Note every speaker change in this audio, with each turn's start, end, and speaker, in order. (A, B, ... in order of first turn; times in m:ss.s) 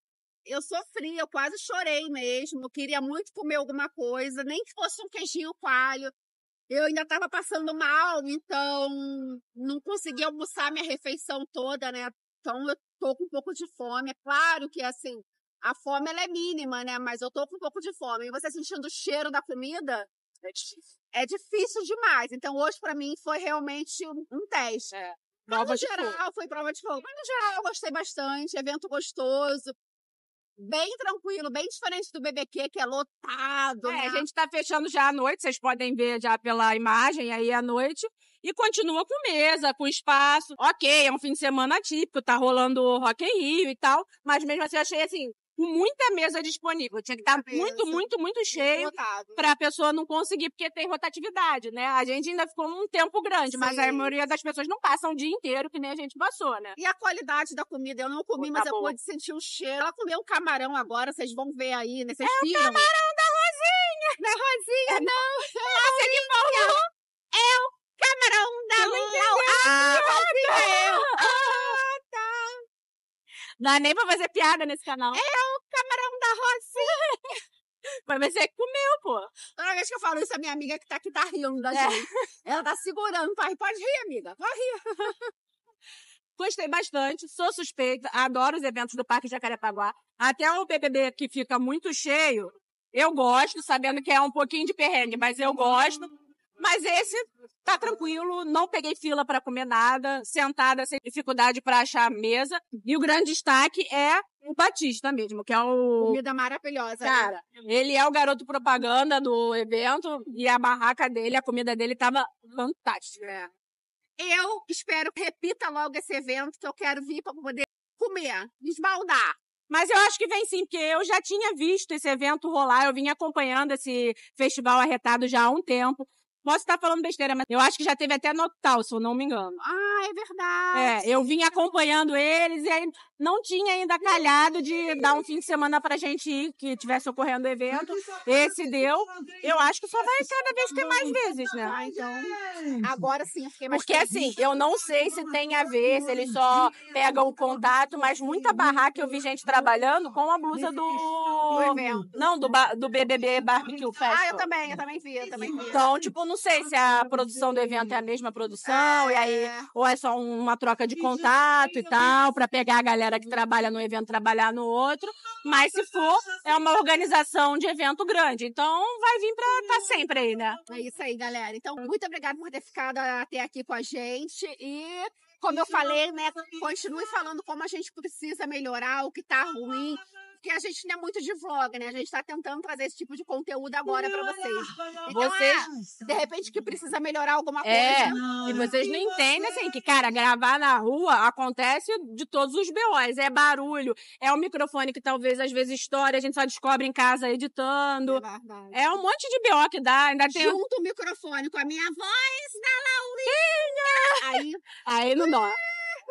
0:00.4-0:06.1 A
0:06.7-0:20.1 A
0:20.4-0:20.8 B
0:21.1-0:24.9 A
0:24.9-0:26.2 B
0:25.5-0:29.7 A
0:30.6-0:34.2 A
0:33.8-0:56.8 B
0:47.3-0:49.5 A
0:53.5-0:54.1 A
0:56.8-1:02.9 A
0:58.4-0:58.9 B
1:02.2-1:04.2 B
1:04.2-1:06.8 A
1:04.9-1:06.8 B
1:07.3-1:12.6 A
1:08.8-1:11.8 B
1:13.6-1:15.2 B
1:15.1-1:17.0 A
1:18.0-1:19.3 B
1:19.5-1:25.2 A
1:21.7-1:22.2 B
1:26.4-1:46.2 B
1:46.0-1:47.4 A
1:47.0-1:53.4 B
1:54.2-1:59.4 A
1:59.7-2:09.6 B
2:09.6-2:11.0 A
2:10.7-2:21.7 B
2:21.6-2:24.3 A
2:23.7-2:34.4 B
2:31.5-2:32.1 A
2:34.1-2:35.8 A
2:35.6-2:50.6 B
2:38.6-2:39.7 A
2:50.7-3:09.4 A
3:05.1-3:05.9 B
3:07.6-3:20.6 B
3:18.1-3:18.8 A
3:20.3-3:24.6 A
3:23.3-3:25.6 B